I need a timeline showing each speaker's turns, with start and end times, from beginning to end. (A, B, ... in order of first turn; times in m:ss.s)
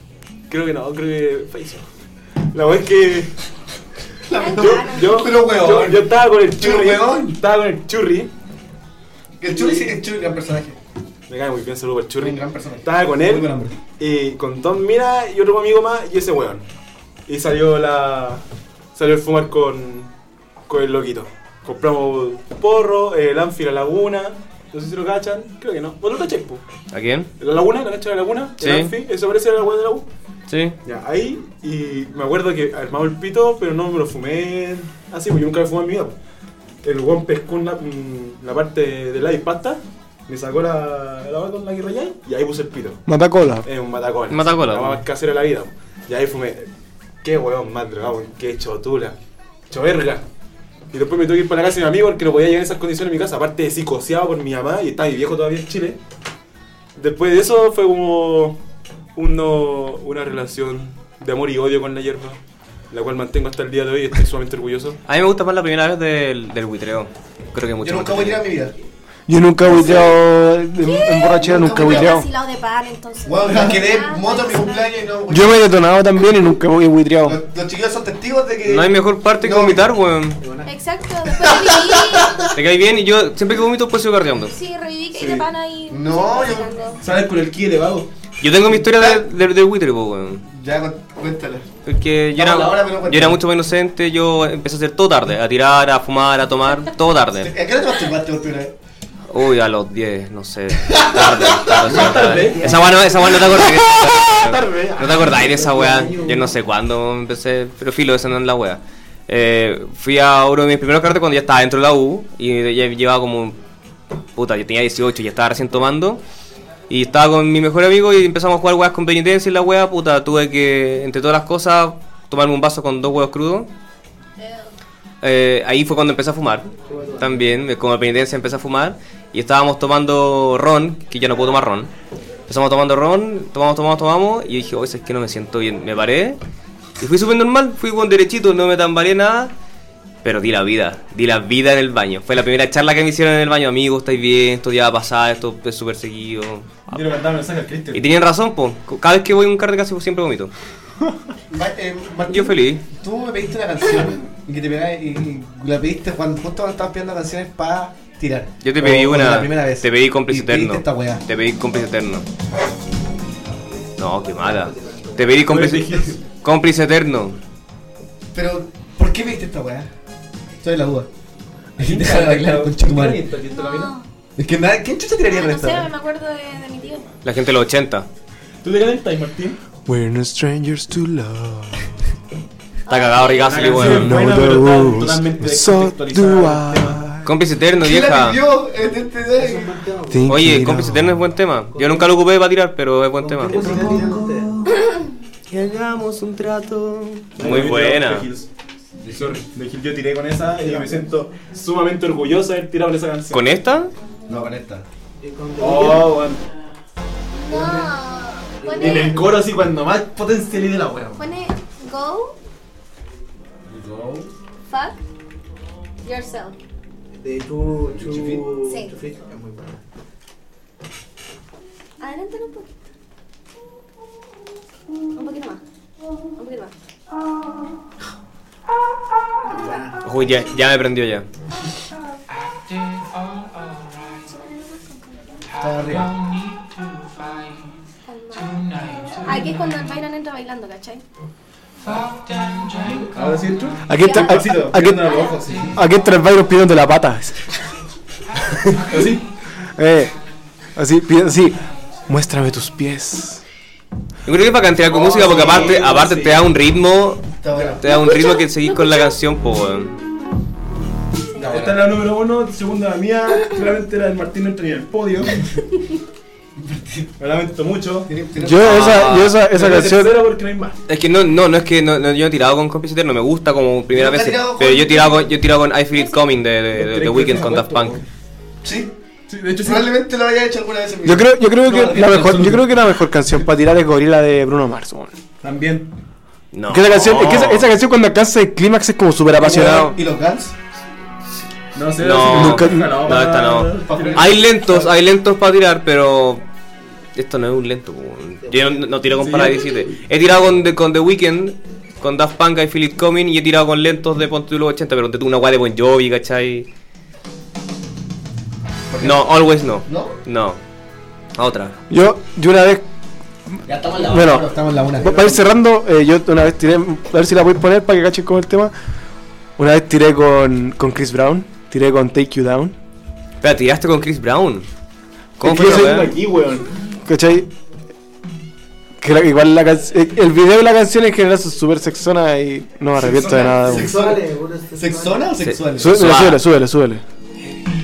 0:00.5-0:01.8 A
0:02.5-0:03.3 A
0:04.3-0:07.4 B
0:04.3-0:05.4 C
0:04.4-0:08.3 A
0:09.4-0:10.8 B
0:11.3-0:16.6 A
0:12.2-0:13.8 B
0:17.3-0:18.4 A
0:18.9-0:20.1 A
0:20.7-0:26.6 A
0:26.9-0:27.3 D
0:27.4-0:30.1 A
0:28.6-0:28.9 D
0:30.5-0:30.8 D
0:30.8-0:36.1 A
0:36.8-0:43.0 A
0:43.1-0:43.7 E
0:43.6-0:46.7 A
0:44.3-0:45.0 D
0:47.2-0:49.2 A
0:49.7-0:50.2 A
0:50.9-0:56.0 A
0:57.0-0:58.6 A
0:59.1-1:02.4 A
1:02.9-1:05.0 A
1:05.1-1:08.4 D
1:07.8-1:08.7 B
1:09.3-1:12.3 E
1:09.7-1:10.1 B
1:09.8-1:10.1 C
1:10.8-1:14.9 C
1:11.4-1:12.2 B
1:13.2-1:15.6 B
1:15.3-1:17.4 E
1:17.2-1:19.8 B
1:18.6-1:20.4 D
1:20.4-1:20.8 F
1:20.6-1:22.4 C
1:21.4-1:22.2 B
1:22.5-1:24.5 D
1:24.5-1:27.0 C
1:25.1-1:25.5 A
1:25.9-1:26.7 B
1:27.0-1:28.1 A
1:28.4-1:30.4 D
1:28.8-1:29.2 B
1:30.5-1:31.7 B
1:31.8-1:37.5 D
1:32.3-1:33.4 B
1:37.3-1:38.7 B
1:39.3-1:53.6 D
1:40.8-1:42.0 B
1:41.8-1:42.9 A
1:42.6-1:42.9 B
1:44.3-1:46.1 A
1:45.4-1:46.5 F
1:54.3-1:56.2 D
1:56.9-2:03.7 D
2:04.4-2:04.7 C
2:05.2-2:11.9 D
2:06.9-2:07.6 F
2:12.5-2:16.4 D
2:17.0-2:19.5 D
2:20.2-2:27.0 D
2:26.9-2:28.0 A
2:27.9-2:30.5 D
2:31.5-2:41.2 B
2:32.3-2:32.8 D
2:38.6-2:42.2 D
2:44.0-2:47.4 D
2:44.3-2:45.4 F
2:45.4-2:46.2 A
2:48.3-2:49.9 B
2:50.6-2:51.1 B
2:51.8-2:53.9 A
2:51.8-2:53.2 B
2:53.5-2:54.0 C
2:54.4-2:55.9 B
2:55.3-2:57.1 C
2:57.2-2:58.1 D
2:58.6-2:59.6 A
2:59.8-3:01.8 E
3:02.9-3:03.8 C
3:02.9-3:04.2 D
3:03.4-3:07.0 A
3:03.8-3:07.3 E
3:07.2-3:08.4 D
3:07.8-3:09.7 B
3:09.4-3:10.5 F
3:10.1-3:11.2 E
3:10.2-3:13.8 D
3:11.7-3:12.2 F
3:13.2-3:14.6 F
3:13.5-3:14.2 B
3:15.5-3:18.3 D
3:17.4-3:18.5 A
3:19.0-3:19.4 B
3:19.1-3:23.5 A
3:20.6-3:20.9 B
3:23.3-3:23.9 D
3:24.3-3:24.8 B
3:25.2-3:26.2 F
3:25.6-3:26.4 A
3:27.3-3:29.2 C
3:27.5-3:27.9 F
3:28.6-3:29.4 F
3:28.8-3:31.2 A
3:31.2-3:32.4 C
3:33.7-3:34.3 B
3:34.6-3:35.0 C
3:36.0-3:36.6 C
3:37.1-3:39.8 F
3:38.0-3:38.4 B
3:38.6-3:38.9 C
3:42.0-3:42.7 C
3:45.1-3:45.6 C
3:46.4-3:46.7 C
3:49.4-3:49.9 C
3:49.5-3:49.9 F
3:50.0-3:51.2 D
3:54.3-3:55.4 C
3:55.6-3:56.2 B
3:58.0-4:01.0 C
4:01.8-4:05.8 A
4:03.8-4:07.4 E
4:04.0-4:04.4 C
4:05.1-4:05.4 C
4:08.5-4:09.0 E
4:08.8-4:09.3 A
4:09.7-4:10.1 E
4:10.8-4:11.6 E
4:12.1-4:13.4 E
4:14.2-4:17.3 D
4:14.9-4:16.5 A
4:17.4-4:17.8 B
4:17.8-4:20.0 D
4:17.9-4:18.4 C
4:21.4-4:25.4 A
4:21.4-4:21.8 B
4:26.6-4:27.1 B
4:27.2-4:28.1 A
4:28.0-4:28.8 B
4:28.4-4:30.2 E
4:28.6-4:29.4 D
4:29.4-4:30.8 A
4:30.9-4:38.0 D
4:33.9-4:35.3 B
4:36.7-4:38.0 A
4:38.6-4:38.9 B
4:39.3-4:39.9 A
4:39.6-4:42.6 B
4:41.0-4:45.1 E
4:41.7-4:42.5 A
4:45.4-4:45.9 A
4:46.5-4:47.7 D
4:46.7-4:49.9 E
4:49.4-4:50.5 B
4:49.5-4:49.9 D
4:51.7-4:54.4 A
4:52.0-4:56.4 D
4:52.3-4:52.9 E
4:53.8-4:54.9 B
4:57.1-5:06.7 D
4:58.4-4:58.8 F
4:59.1-4:59.6 A
5:08.9-5:09.3 B
5:09.0-5:10.6 D
5:09.8-5:10.1 B
5:11.4-5:11.7 D
5:11.9-5:12.8 E
5:13.7-5:15.3 B
5:14.0-5:14.5 E
5:15.0-5:18.7 E
5:15.1-5:15.4 A
5:19.6-5:22.7 E
5:23.4-5:24.7 D
5:25.4-5:26.2 D
5:25.4-5:26.0 E
5:25.4-5:26.7 A
5:27.0-5:27.5 E
5:29.0-5:33.9 E
5:33.0-5:33.6 A
5:33.3-5:36.0 B
5:33.6-5:35.4 F
5:35.4-5:36.4 D
5:35.8-5:37.0 E